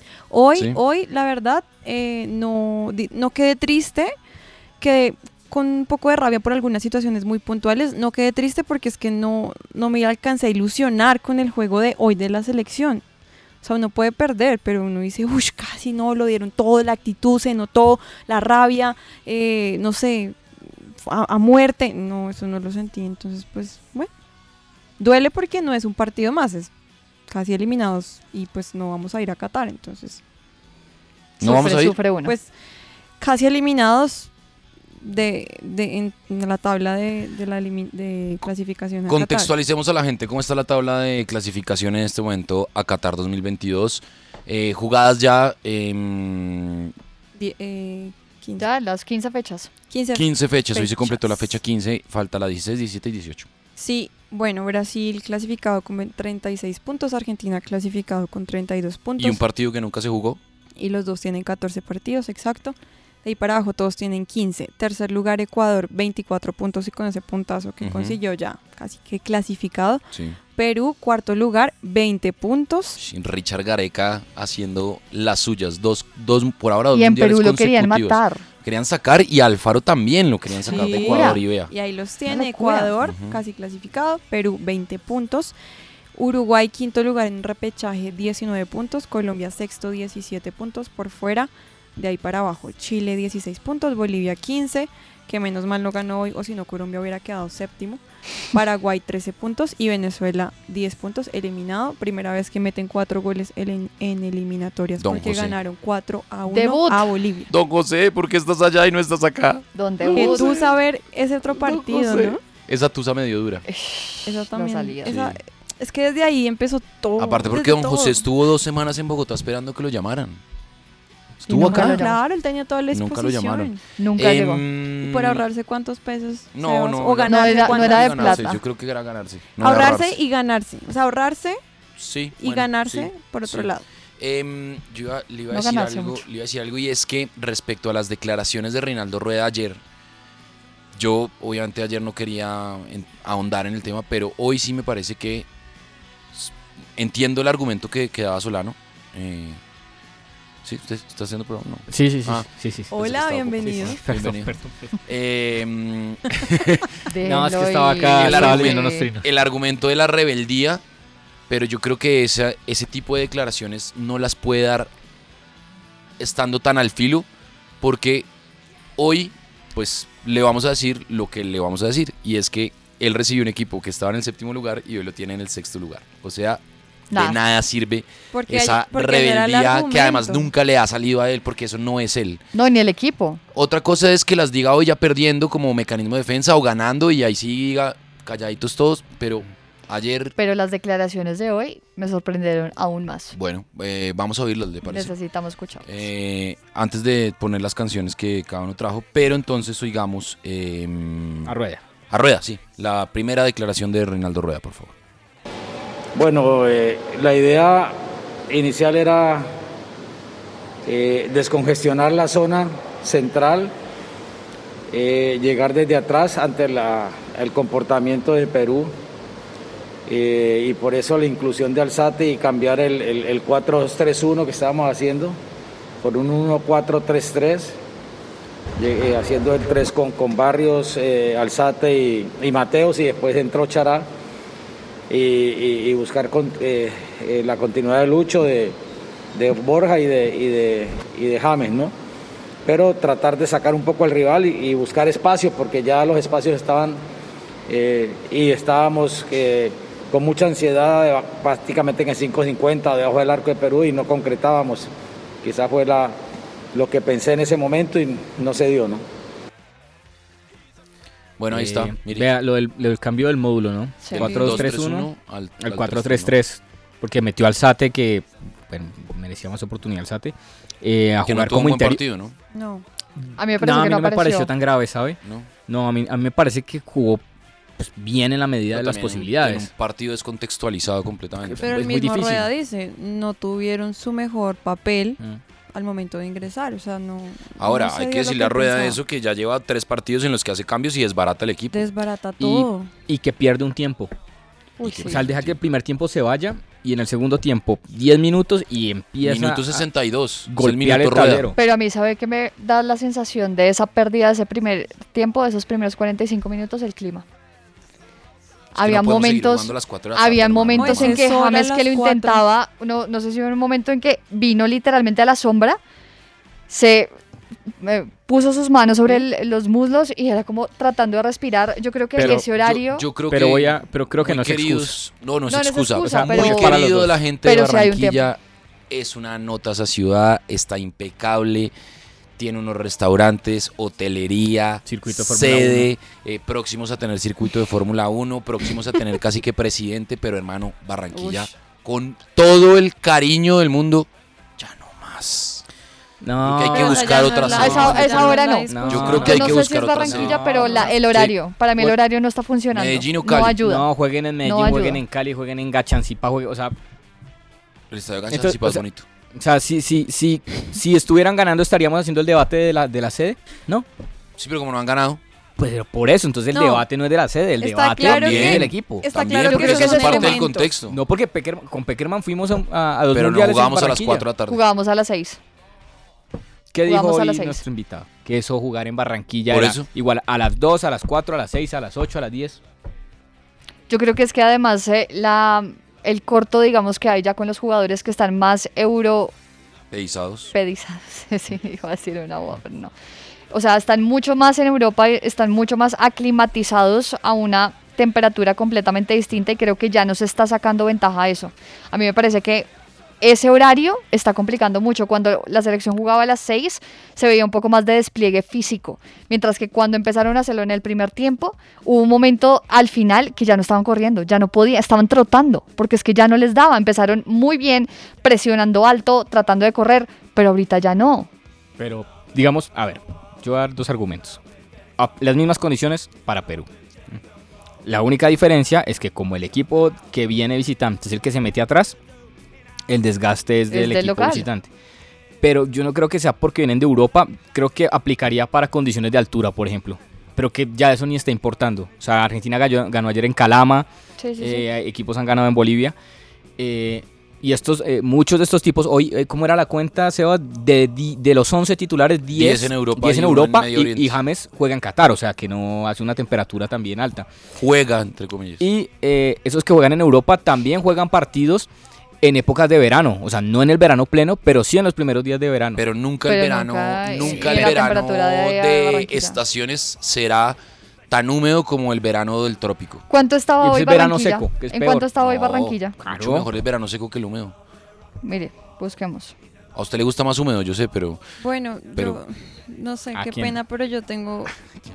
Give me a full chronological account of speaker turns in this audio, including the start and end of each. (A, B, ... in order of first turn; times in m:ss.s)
0:00.3-0:04.1 A
0:04.8-0:13.0 A
0:13.6-0:24.1 A
0:25.0-0:26.7 A
0:27.3-0:30.2 A
0:31.4-0:32.4 B
0:31.4-0:32.0 C
0:32.2-0:32.5 A
0:33.2-0:34.3 A
0:35.0-0:39.5 A
0:39.1-0:46.9 C
0:47.4-0:48.7 A
0:48.6-0:49.7 B
0:49.9-0:51.5 A
0:50.1-0:53.5 C
0:53.8-0:59.4 A
0:59.2-1:00.4 C
1:00.8-1:10.0 A
1:07.8-1:08.2 C
1:10.1-1:10.4 C
1:10.6-1:13.0 A
1:13.0-1:21.7 C
1:16.9-1:18.4 B
1:20.6-1:25.6 A
1:20.7-1:21.4 B
1:22.3-1:22.9 B
1:23.0-1:23.4 C
1:26.2-1:38.0 A
1:38.5-1:47.5 A
1:45.0-1:45.6 C
1:46.5-1:47.1 B
1:47.5-1:50.7 C
1:49.7-1:50.6 B
1:50.1-1:52.4 A
1:51.5-1:53.6 C
1:53.7-1:55.1 B
1:54.3-1:58.2 A
1:55.1-1:55.4 C
1:57.2-2:00.4 C
2:01.5-2:02.1 C
2:01.5-2:02.2 B
2:01.6-2:03.8 A
2:02.9-2:05.4 C
2:04.0-2:04.6 B
2:05.0-2:08.5 A
2:06.5-2:10.2 C
2:07.3-2:08.6 B
2:09.6-2:11.6 A
2:12.0-2:19.8 C
2:12.4-2:13.8 A
2:15.5-2:16.2 B
2:21.0-2:25.5 C
2:26.4-2:29.6 C
2:30.6-2:32.4 C
2:31.9-2:32.9 D
2:32.9-2:34.0 A
2:33.0-2:34.5 C
2:33.6-2:34.9 D
2:35.1-2:36.9 C
2:37.1-2:39.1 B
2:37.2-2:39.2 D
2:38.2-2:40.8 C
2:41.5-2:44.9 C
2:46.2-2:47.3 C
2:47.8-2:48.3 C
2:49.0-3:02.4 C
2:57.1-2:57.4 B
2:58.3-3:00.5 A
3:02.5-3:03.4 B
3:03.5-3:10.4 C
3:10.4-3:13.4 B
3:13.4-3:15.1 C
3:14.8-3:15.9 B
3:15.9-3:21.5 C
3:21.4-3:21.8 D
3:22.1-3:24.9 C
3:26.2-3:28.0 E
3:28.5-3:29.5 E
3:30.9-3:33.7 E
3:34.9-3:38.9 E
3:40.1-3:45.4 E
3:46.0-3:47.8 E
3:48.8-3:54.1 E
3:55.1-3:58.8 E
3:59.4-4:01.9 E
4:02.7-4:07.0 E
4:07.7-4:14.9 E
4:15.4-4:16.2 E
4:16.7-4:19.0 E
4:21.4-4:22.3 C
4:21.5-4:25.1 D
4:24.0-4:24.5 B
4:24.1-4:26.3 C
4:25.6-4:32.0 D
4:31.2-4:32.4 C
4:32.5-4:32.8 A
4:33.4-4:34.5 B
4:33.6-4:37.2 D
4:37.8-4:39.7 D
4:38.7-4:41.6 C
4:41.4-4:42.5 D
4:41.6-4:45.2 A
4:45.7-4:49.0 A
4:47.6-4:51.9 C
4:51.7-4:52.9 A
4:52.4-4:54.1 D
4:54.8-4:55.2 B
4:54.8-4:55.6 C
4:55.1-4:59.8 D
4:59.2-5:01.5 C
5:00.5-5:01.6 D
5:01.6-5:07.2 B
5:08.7-5:15.8 B
5:08.8-5:11.2 C
5:10.8-5:12.4 A
5:16.7-5:17.1 B
5:17.8-5:23.1 B
5:22.2-5:22.5 D
5:22.3-5:28.4 C
5:23.3-5:25.0 D
5:25.5-5:26.9 B
5:26.0-5:27.1 D
5:27.4-5:28.3 B
5:28.9-5:31.7 C
5:32.4-5:45.6 C
5:34.8-5:35.9 D
5:41.1-5:41.5 A
5:46.2-5:47.2 D
5:46.4-5:51.3 C
5:46.7-5:49.5 A
5:47.6-5:53.9 B
5:48.7-5:50.9 D
5:50.6-5:50.9 A
5:52.7-5:53.6 C
5:53.6-5:56.8 D
5:54.4-5:55.0 B
5:57.9-5:59.0 C
5:58.3-5:58.8 D
5:59.4-6:03.9 D
6:04.4-6:05.2 C
6:05.6-6:09.1 D
6:06.5-6:06.8 A
6:07.6-6:10.7 A
6:08.0-6:11.0 C
6:09.5-6:10.4 B
6:10.9-6:14.3 D
6:13.1-6:14.6 C
6:14.5-6:15.4 B
6:16.7-6:22.6 D
6:16.8-6:17.6 B
6:19.5-6:19.9 C
6:23.9-6:29.3 B
6:29.9-6:30.5 C
6:30.5-6:32.9 B
6:33.5-6:42.7 B
6:43.2-7:01.3 B
7:01.8-7:04.4 D
7:05.0-7:07.2 D
7:07.8-7:12.0 D
7:12.9-7:14.7 D
7:13.7-7:14.5 B
7:15.4-7:23.9 D
7:24.2-7:24.6 B
7:24.4-7:26.0 D
7:26.6-7:37.3 D
7:32.4-7:34.2 C
7:37.6-7:38.6 C
7:38.6-7:41.7 D
7:42.2-7:45.8 D
7:45.8-7:50.6 C
7:46.3-7:49.4 B
7:47.2-7:47.8 D
7:51.1-7:53.0 C
7:53.1-7:56.0 B
7:53.6-7:55.1 D
7:55.2-7:57.6 C
7:56.0-7:56.5 D
7:58.2-7:59.3 B
7:59.8-8:01.2 C
8:01.4-8:04.5 A
8:03.1-8:03.6 D